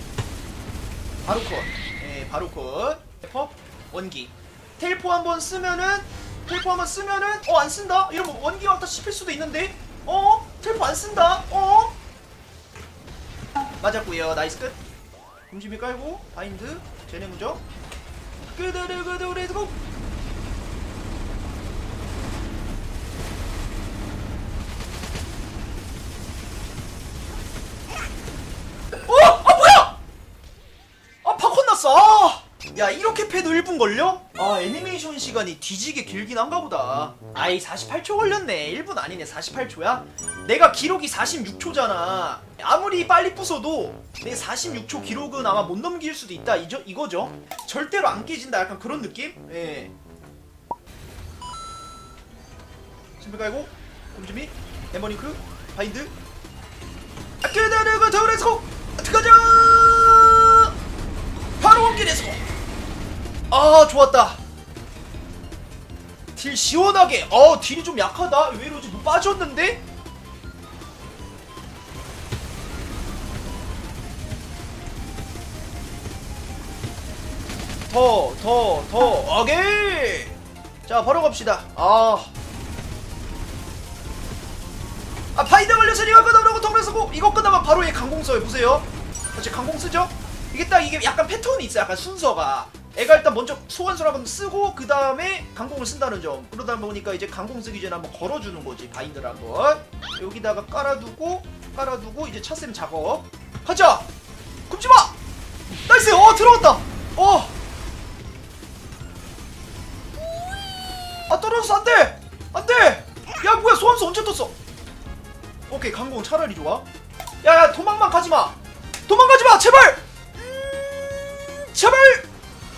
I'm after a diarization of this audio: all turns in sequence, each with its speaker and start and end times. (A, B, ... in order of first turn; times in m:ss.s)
0:01.2-0:12.0 A
0:13.8-0:14.8 A
0:15.5-0:17.6 A
0:18.5-0:19.8 A
0:29.1-0:30.0 A
0:31.2-0:49.9 A
0:53.2-0:56.1 A
0:57.4-1:00.7 A
1:01.6-1:02.4 A
1:03.5-1:04.4 A
1:06.3-1:09.8 A
1:17.9-1:20.3 A
1:20.8-1:22.3 A
1:25.3-1:44.1 A
1:44.7-1:45.2 A
1:45.9-1:47.5 A
1:51.2-1:54.5 A
1:55.7-1:56.8 A
1:57.4-2:02.3 A